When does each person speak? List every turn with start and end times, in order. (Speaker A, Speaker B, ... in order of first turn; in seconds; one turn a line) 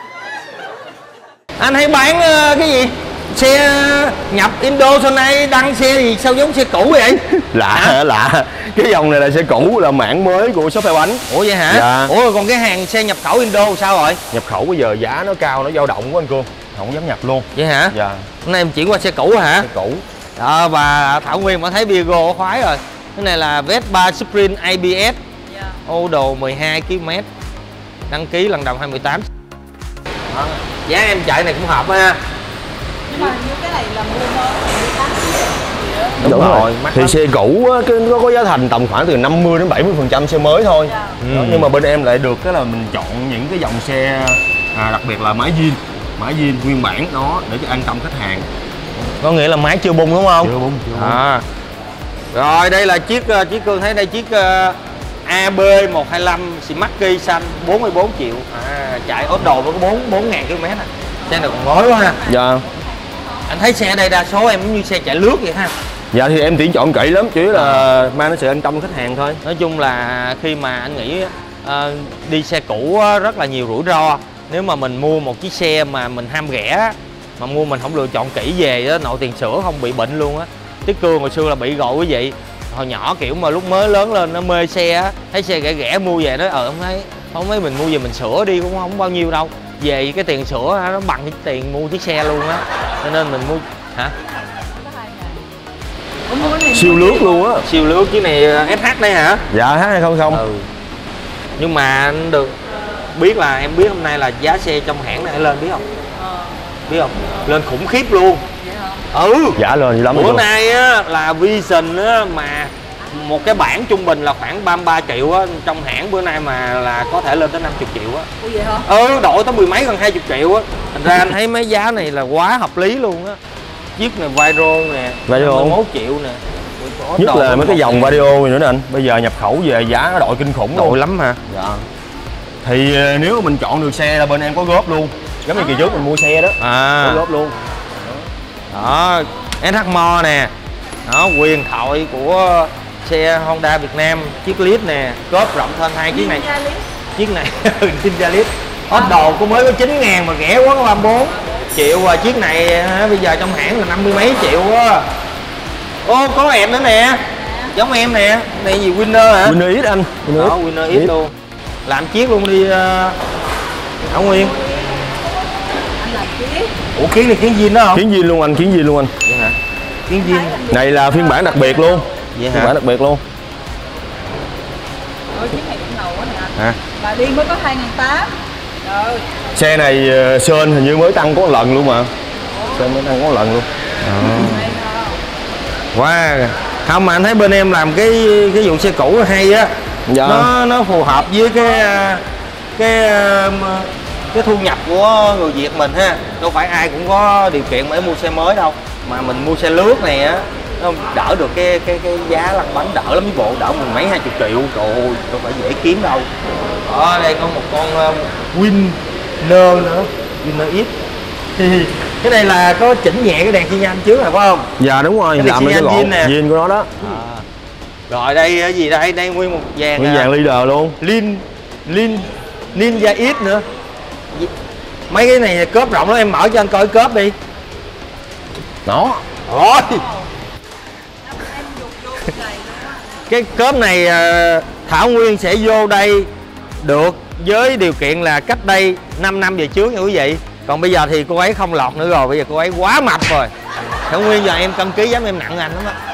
Speaker A: 1.6-8.0
Speaker B: 7.5-12.1
Speaker A: 11.3-14.2
Speaker B: 14.3-18.3
Speaker A: 17.5-19.7
Speaker B: 19.6-20.0
Speaker A: 20.4-25.2
Speaker A: 25.9-27.2
Speaker A: 28.1-29.2
Speaker A: 30.3-32.2
Speaker C: 33.1-36.2
Speaker A: 36.2-37.2
Speaker B: 36.2-48.5
Speaker A: 41.2-41.7
Speaker A: 49.2-51.4
Speaker B: 50.4-51.2
Speaker A: 52.3-62.2
Speaker B: 62.2-62.6
Speaker A: 63.5-65.7
Speaker B: 66.1-69.4
Speaker A: 67.5-67.9
Speaker A: 69.4-94.1
Speaker C: 94.5-95.4
Speaker C: 96.3-97.2
Speaker B: 96.7-97.6
Speaker A: 97.6-99.4
Speaker B: 99.5-100.4
Speaker A: 100.3-100.7
Speaker A: 101.6-102.5
Speaker A: 103.1-105.8
Speaker A: 106.9-108.4
Speaker C: 108.7-109.0
Speaker A: 109.1-118.3
Speaker B: 109.5-110.5
Speaker C: 118.4-118.8
Speaker A: 118.8-123.4
Speaker A: 124.0-128.2
Speaker B: 125.3-125.8
Speaker B: 127.2-131.8
Speaker A: 130.7-131.4
Speaker B: 132.6-137.5
Speaker A: 136.6-137.2
Speaker A: 138.7-140.5
Speaker A: 141.0-146.5
Speaker C: 146.2-146.8
Speaker A: 147.1-155.1
Speaker A: 156.0-159.6
Speaker C: 157.4-157.7
Speaker B: 159.4-161.1
Speaker A: 160.3-161.3
Speaker A: 161.8-163.2
Speaker A: 164.1-164.6
Speaker C: 164.6-165.1
Speaker C: 165.9-166.7
Speaker A: 166.9-168.0
Speaker B: 167.9-169.1
Speaker A: 169.2-169.6
Speaker A: 170.1-170.6
Speaker C: 170.1-172.0
Speaker B: 170.7-173.2
Speaker A: 172.3-172.7
Speaker C: 175.3-179.2
Speaker B: 179.5-182.1
Speaker B: 182.7-183.7
Speaker A: 184.0-184.7
Speaker C: 184.3-185.2
Speaker A: 185.9-189.7
Speaker B: 190.1-190.5
Speaker A: 190.2-192.2
Speaker A: 192.8-206.3
Speaker A: 206.8-210.9
Speaker A: 211.6-214.7
Speaker B: 214.8-216.9
Speaker A: 215.3-216.3
Speaker A: 217.0-217.4
Speaker A: 218.1-220.3
Speaker B: 220.0-221.0
Speaker A: 221.0-223.6
Speaker A: 225.1-227.3
Speaker B: 228.8-229.2
Speaker A: 229.4-230.1
Speaker C: 231.3-233.0
Speaker A: 233.3-243.5
Speaker A: 244.1-245.9